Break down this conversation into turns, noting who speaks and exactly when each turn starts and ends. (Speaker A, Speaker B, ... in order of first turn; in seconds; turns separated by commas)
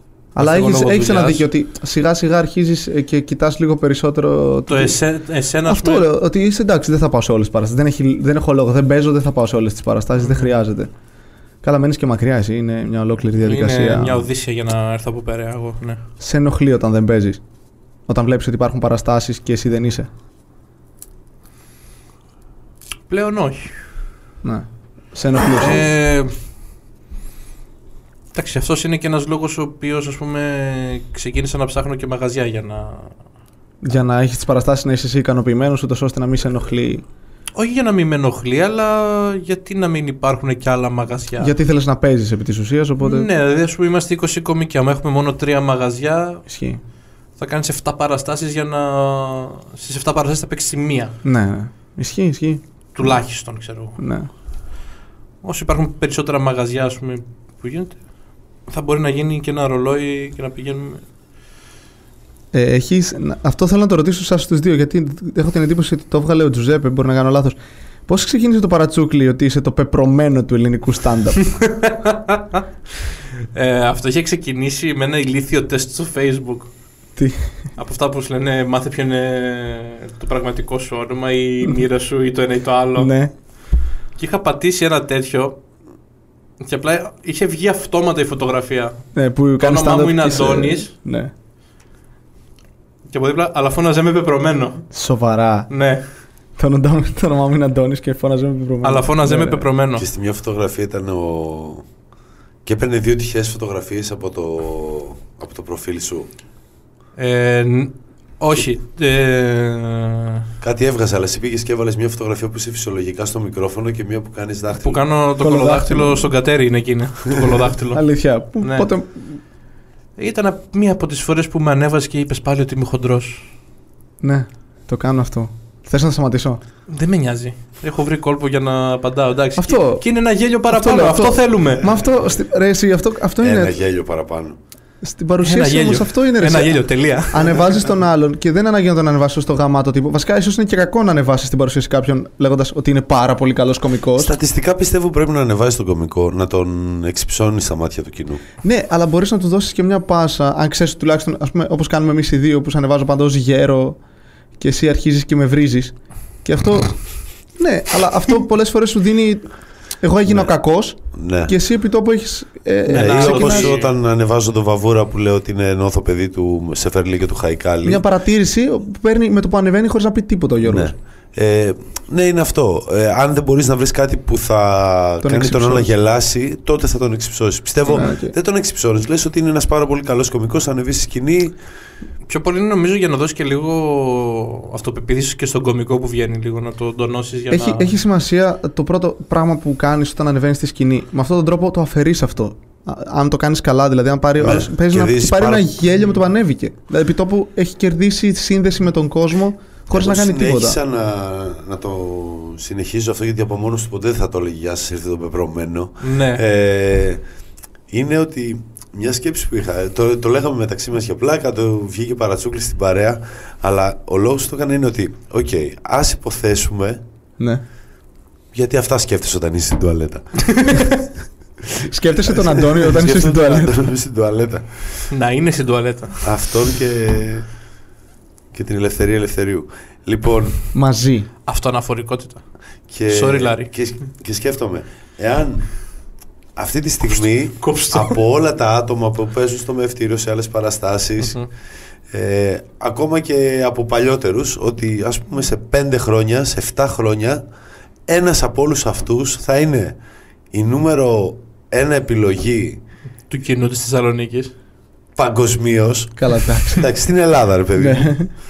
Speaker A: 0.3-5.0, Speaker B: 0.4-1.5, Speaker B: 4.7-6.1, Speaker A: 5.7-10.9, Speaker B: 10.2-10.5, Speaker A: 11.6-14.3, Speaker B: 13.4-16.0, Speaker A: 16.2-17.4, Speaker A: 18.1-20.1, Speaker B: 23.1-23.8, Speaker A: 24.4-25.8, Speaker B: 25.6-26.3, Speaker B: 28.3-33.1, Speaker A: 33.8-37.0, Speaker B: 37.5-41.5, Speaker A: 41.4-43.3, Speaker B: 43.0-46.4, Speaker A: 46.5-46.8, Speaker B: 47.4-51.2, Speaker A: 51.2-52.6, Speaker B: 53.0-54.0, Speaker A: 54.0-54.3, Speaker B: 55.4-58.0, Speaker B: 58.7-61.0, Speaker A: 62.5-71.5, Speaker B: 71.5-72.6, Speaker B: 73.5-76.7, Speaker A: 77.2-77.6, Speaker B: 77.8-83.1, Speaker A: 83.0-83.3, Speaker B: 84.2-85.6, Speaker B: 86.6-89.0, Speaker A: 89.2-91.3, Speaker B: 89.6-90.9, Speaker B: 93.1-94.9, Speaker A: 94.9-95.7, Speaker B: 95.7-96.1, Speaker A: 96.6-99.7, Speaker B: 98.8-100.1, Speaker C: 100.0-101.8, Speaker C: 102.7-106.3, Speaker B: 107.2-110.5, Speaker C: 110.6-115.0, Speaker B: 114.8-118.0, Speaker A: 115.4-116.3, Speaker A: 117.9-119.4, Speaker B: 118.6-118.9, Speaker B: 120.2-123.5, Speaker A: 124.2-126.6, Speaker B: 126.9-131.9, Speaker A: 129.6-130.0, Speaker A: 130.7-133.8, Speaker C: 133.4-134.6, Speaker A: 135.0-144.3, Speaker B: 135.4-137.6, Speaker C: 144.2-148.4, Speaker A: 148.6-154.0, Speaker A: 154.6-157.0, Speaker A: 157.6-159.5, Speaker A: 160.0-163.8, Speaker C: 161.2-161.6, Speaker B: 162.9-163.9, Speaker C: 162.9-168.0, Speaker A: 167.8-170.9, Speaker C: 170.6-181.6, Speaker A: 175.2-175.9, Speaker A: 177.9-178.3, Speaker B: 182.3-187.9, Speaker A: 187.5-200.8, Speaker C: 194.4-195.7, Speaker C: 199.9-207.2, Speaker B: 206.0-206.4, Speaker C: 207.9-217.0, Speaker C: 218.5-220.6, Speaker B: 220.5-220.9, Speaker A: 221.8-223.8, Speaker C: 222.3-225.1, Speaker B: 225.1-226.3, Speaker C: 226.2-227.5, Speaker C: 228.5-230.6, Speaker A: 230.7-231.3, Speaker B: 231.5-232.4, Speaker C: 232.9-235.7, Speaker B: 233.1-233.7, Speaker C: 236.6-241.4, Speaker B: 237.2-238.2, Speaker B: 241.2-241.5, Speaker C: 242.1-247.4, Speaker C: 248.1-250.0, Speaker C: 250.5-252.8, Speaker B: 253.3-254.5, Speaker C: 255.2-258.2, Speaker A: 256.2-256.9, Speaker A: 257.8-258.3